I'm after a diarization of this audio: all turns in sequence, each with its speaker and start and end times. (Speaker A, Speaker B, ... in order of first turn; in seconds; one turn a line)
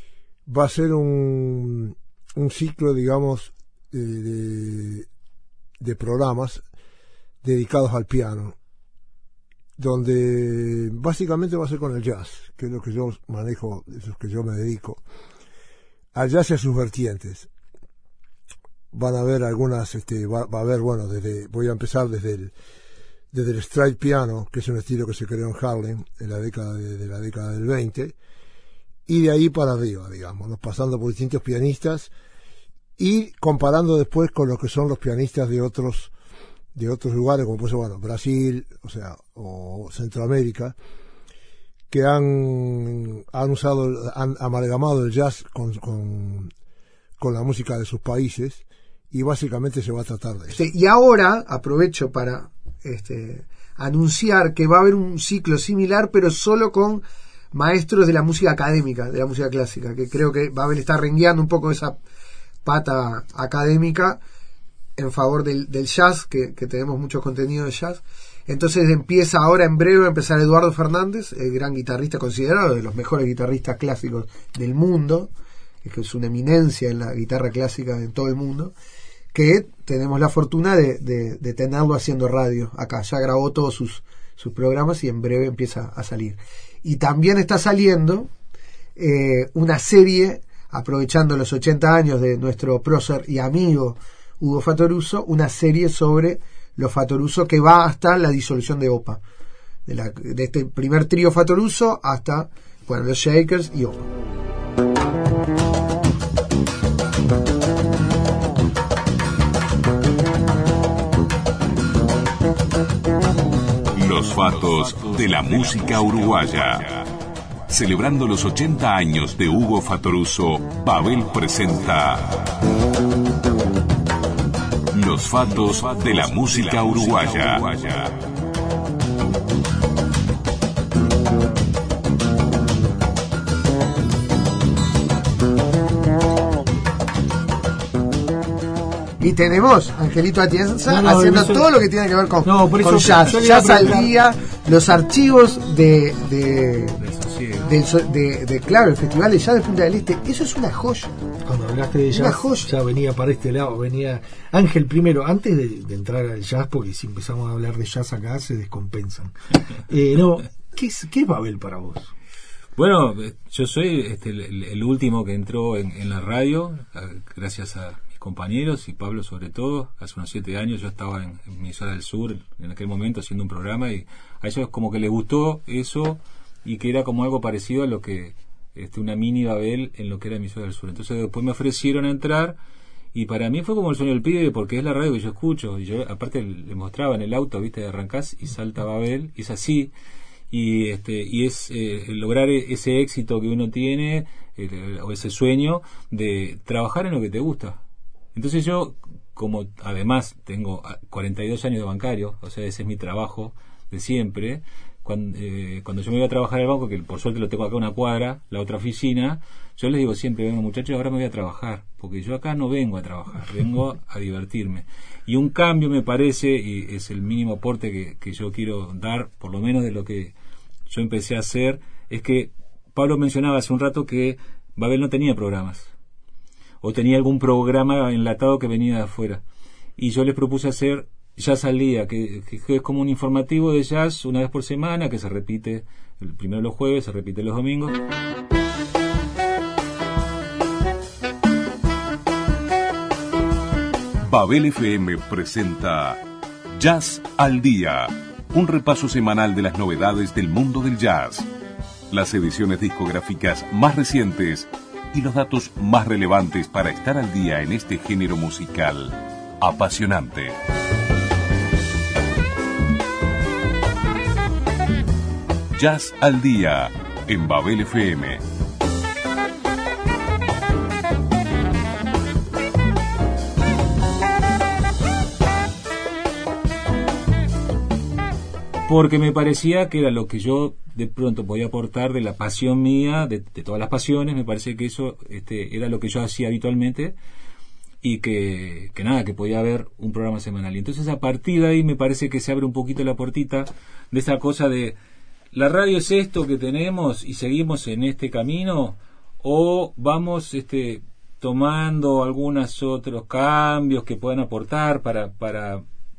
Speaker A: 0.5-5.1
Speaker A: 5.8-6.6
Speaker A: 7.4-8.6
Speaker A: 9.8-15.0
Speaker A: 16.1-17.5
Speaker A: 18.9-22.5
Speaker A: 23.3-28.2
Speaker A: 29.1-32.1
Speaker A: 33.0-36.1
Speaker A: 36.8-40.8
Speaker A: 41.9-46.5
Speaker A: 47.2-50.6
Speaker B: 50.5-62.0
Speaker B: 62.6-64.2
Speaker B: 65.0-75.3
Speaker B: 75.8-78.7
Speaker B: 79.3-88.3
Speaker B: 89.0-99.2
Speaker B: 99.9-104.1
Speaker C: 114.0-117.1
Speaker C: 117.7-122.5
Speaker C: 124.9-128.2
Speaker B: 139.2-147.0
Speaker D: 140.9-141.7
Speaker D: 142.4-144.1
Speaker E: 147.0-147.7
Speaker B: 147.6-151.1
Speaker D: 151.5-159.3
Speaker B: 152.1-152.7
Speaker D: 159.9-162.1
Speaker E: 162.8-182.6
Speaker E: 183.1-189.9
Speaker E: 190.5-197.8
Speaker E: 198.3-220.3
Speaker E: 220.9-225.9
Speaker E: 226.8-229.4
Speaker E: 230.0-238.0
Speaker C: 244.3-246.2
Speaker C: 246.8-251.5
Speaker C: 252.1-260.6
Speaker C: 265.8-268.4
Speaker E: 278.9-287.2
Speaker E: 288.0-295.0
Speaker E: 295.5-305.9